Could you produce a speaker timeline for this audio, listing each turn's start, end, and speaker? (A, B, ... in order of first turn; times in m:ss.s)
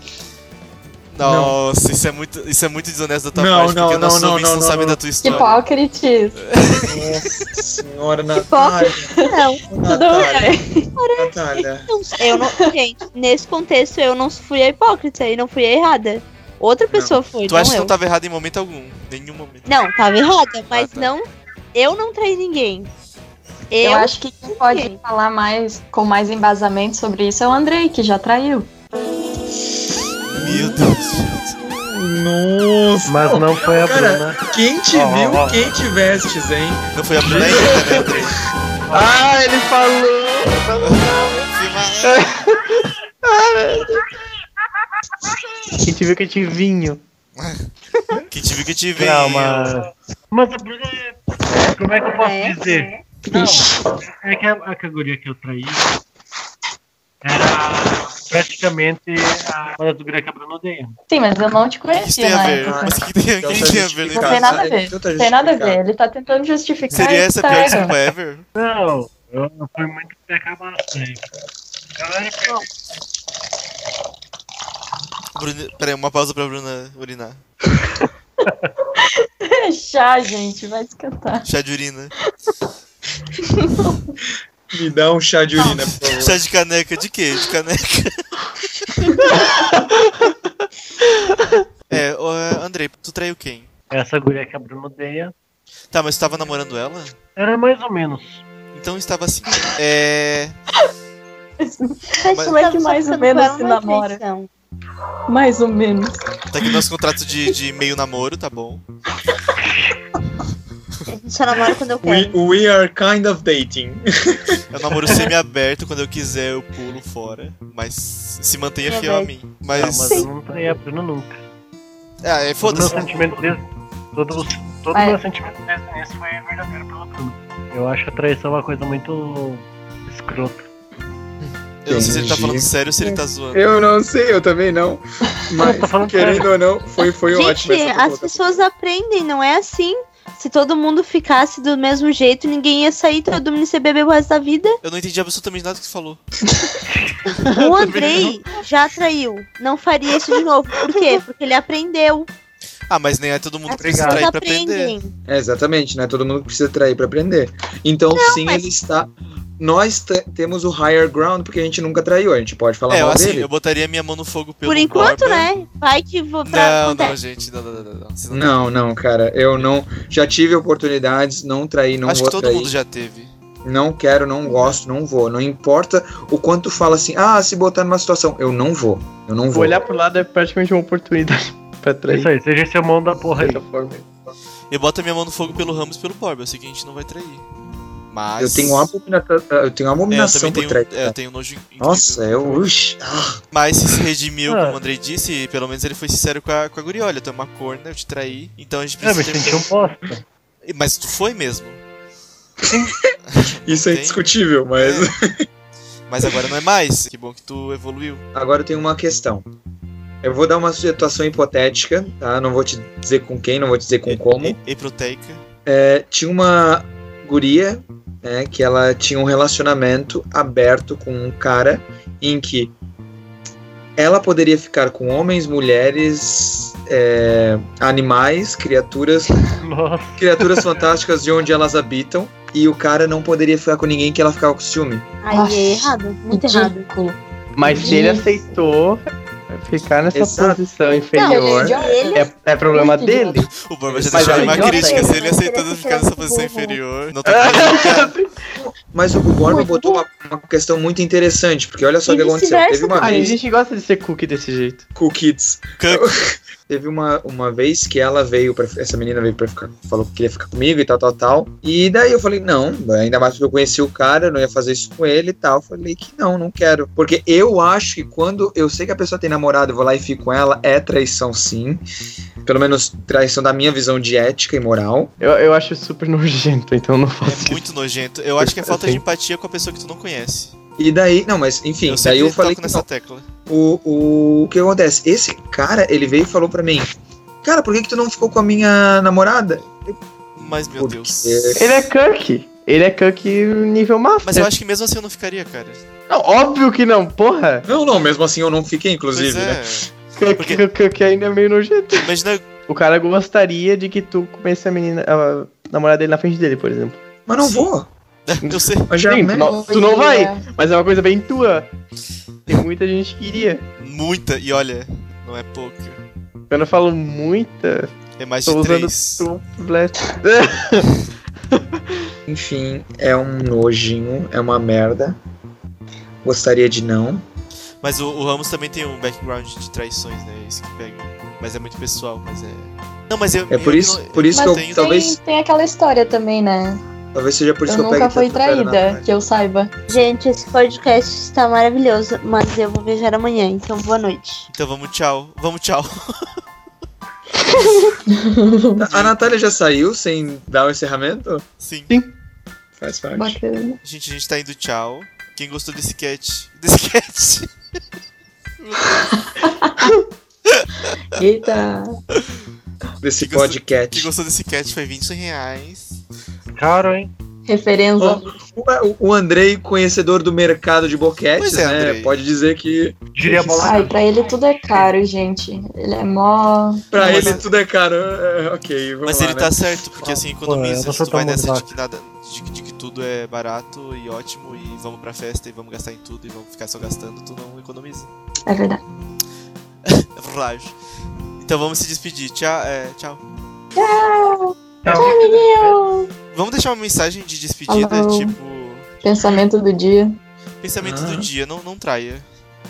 0:01.1-0:05.6 A
0:01.2-0:01.6 B
0:03.3-0:05.5 B
0:05.2-0:06.4 C
0:06.4-0:07.2 A
0:06.8-0:10.6 B
0:08.4-0:09.6 D
0:09.1-0:10.9 C
0:11.0-0:17.9 D
0:11.1-0:11.9 B
0:12.3-0:12.6 C
0:16.9-0:17.2 B
0:17.4-0:19.6 A
0:19.6-0:22.9 D
0:20.7-0:21.1 A
0:23.7-0:25.0 D
0:23.8-0:28.7 C
0:30.3-0:31.6 A
0:30.3-0:30.8 B
0:31.6-0:36.9 B
0:33.0-0:35.7 E
0:36.9-0:38.5 A
0:37.2-0:38.2 F
0:38.9-0:39.3 E
0:38.9-0:44.1 F
0:40.8-0:42.4 A
0:45.8-0:47.0 F
0:47.4-0:47.7 A
0:48.3-0:49.7 A
0:49.0-0:55.8 E
0:52.1-0:53.0 D
0:57.2-1:01.0 E
1:01.1-1:03.0 C
1:01.9-1:04.7 A
1:02.6-1:05.8 B
1:03.5-1:08.0 C
1:06.9-1:08.4 A
1:08.5-1:11.2 E
1:12.0-1:12.7 E
1:15.3-1:17.4 A
1:19.0-1:21.5 C
1:21.4-1:22.1 A
1:23.4-1:23.9 C
1:24.7-1:26.4 B
1:25.6-1:29.1 A
1:29.4-1:30.3 F
1:31.0-1:31.5 F
1:31.9-1:33.7 A
1:33.9-1:35.3 E
1:35.9-1:37.2 A
1:37.4-1:38.4 E
1:38.7-1:40.6 A
1:41.6-1:44.2 C
1:42.2-1:44.5 D
1:45.3-1:46.7 C
1:46.5-1:48.8 A
1:51.1-1:52.4 D
1:52.0-1:54.6 B
1:54.7-2:00.3 A
1:58.8-1:59.3 D
1:59.7-2:01.4 E
2:02.2-2:03.3 A
2:02.6-2:10.6 E
2:04.9-2:05.2 C
2:11.8-2:13.6 A
2:11.8-2:12.7 B
2:13.5-2:18.6 B
2:15.6-2:16.6 E
2:17.3-2:24.8 D
2:24.8-2:26.2 A
2:27.4-2:28.4 F
2:27.5-2:32.3 D
2:32.9-2:34.9 A
2:33.7-2:35.1 D
2:35.3-2:43.5 B
2:38.1-2:38.6 D
2:42.9-2:45.5 A
2:44.6-2:47.2 D
2:46.4-2:48.7 A
2:48.3-2:52.7 B
2:52.0-2:53.3 A
2:53.6-2:59.8 B
2:59.5-3:02.3 F
3:02.1-3:03.6 E
3:03.3-3:04.0 F
3:04.7-3:07.4 A
3:08.1-3:08.9 A
3:08.4-3:11.1 B
3:10.1-3:12.4 A
3:11.8-3:13.4 B
3:13.5-3:19.7 A
3:14.5-3:14.8 E
3:19.0-3:20.2 E
3:20.6-3:21.8 A
3:23.3-3:24.2 A
3:23.6-3:25.4 B
3:24.8-3:25.1 A
3:26.1-3:28.2 A
3:28.3-3:29.4 B
3:30.2-3:34.6 B
3:34.1-3:35.4 A
3:35.6-3:42.7 B
3:44.0-3:49.4 B
3:49.6-3:50.8 E
3:50.2-3:55.1 B
3:55.2-3:56.8 D
3:55.3-3:58.3 C
3:57.5-4:05.2 F
4:00.1-4:00.6 B
4:01.1-4:02.3 D
4:01.2-4:03.4 C
4:03.6-4:08.1 A
4:04.2-4:06.8 D
4:07.3-4:08.3 F
4:08.6-4:13.3 B
4:09.4-4:10.0 C
4:12.0-4:13.4 C
4:13.0-4:14.8 F
4:15.0-4:31.8 B
4:15.8-4:16.1 A
4:32.4-4:35.1 B
4:35.2-4:37.6 F
4:37.2-4:40.5 A
4:38.4-4:39.0 F
4:40.8-4:42.8 B
4:41.9-4:43.2 A
4:43.5-4:46.9 B
4:47.4-4:50.0 B
4:50.4-4:51.6 A
4:50.8-4:51.6 B
4:51.6-4:54.5 F
4:54.2-4:55.8 A
4:56.1-4:57.6 F
4:57.6-4:59.8 B
4:59.1-5:00.6 A
5:00.2-5:02.1 F
5:02.0-5:02.5 A
5:02.7-5:07.0 F
5:07.3-5:07.9 B
5:07.4-5:07.7 A
5:08.2-5:08.9 A
5:08.4-5:11.7 F
5:08.9-5:09.6 B
5:09.4-5:10.4 C
5:12.5-5:13.6 F
5:13.8-5:16.0 A
5:16.5-5:17.9 F
5:18.2-5:19.3 A
5:18.4-5:20.9 F
5:21.5-5:22.1 F
5:22.3-5:25.2 B
5:26.2-5:27.2 B
5:27.8-5:34.9 A
5:33.5-5:35.2 B
5:34.3-5:36.8 C
5:37.1-5:39.0 B
5:37.7-5:39.7 C
5:39.9-5:44.5 D
5:44.5-5:46.3 A
5:47.4-5:47.9 A
5:48.1-5:48.9 C
5:48.8-5:51.4 B
5:48.9-5:49.3 A
5:51.6-5:51.9 A
5:52.8-5:53.4 B
5:53.2-5:53.8 C
5:53.8-5:57.5 A
5:58.6-5:59.2 A
5:59.0-5:59.9 C
6:01.1-6:02.0 C
6:03.0-6:04.1 B
6:03.2-6:06.0 A
6:06.6-6:07.1 E
6:07.4-6:08.3 C
6:08.0-6:13.8 B
6:11.4-6:12.1 A
6:13.1-6:14.0 E
6:13.6-6:17.4 C
6:16.9-6:19.6 B
6:17.0-6:17.4 A
6:19.0-6:28.1 A
6:20.4-6:21.7 E
6:28.4-6:28.8 C
6:29.8-6:30.8 A
6:31.4-6:33.2 A
6:33.8-6:36.1 C
6:34.8-6:35.8 E
6:36.3-6:38.9 A
6:37.7-6:38.3 C
6:39.0-6:40.2 C
6:40.6-6:42.2 A
6:40.8-6:41.3 B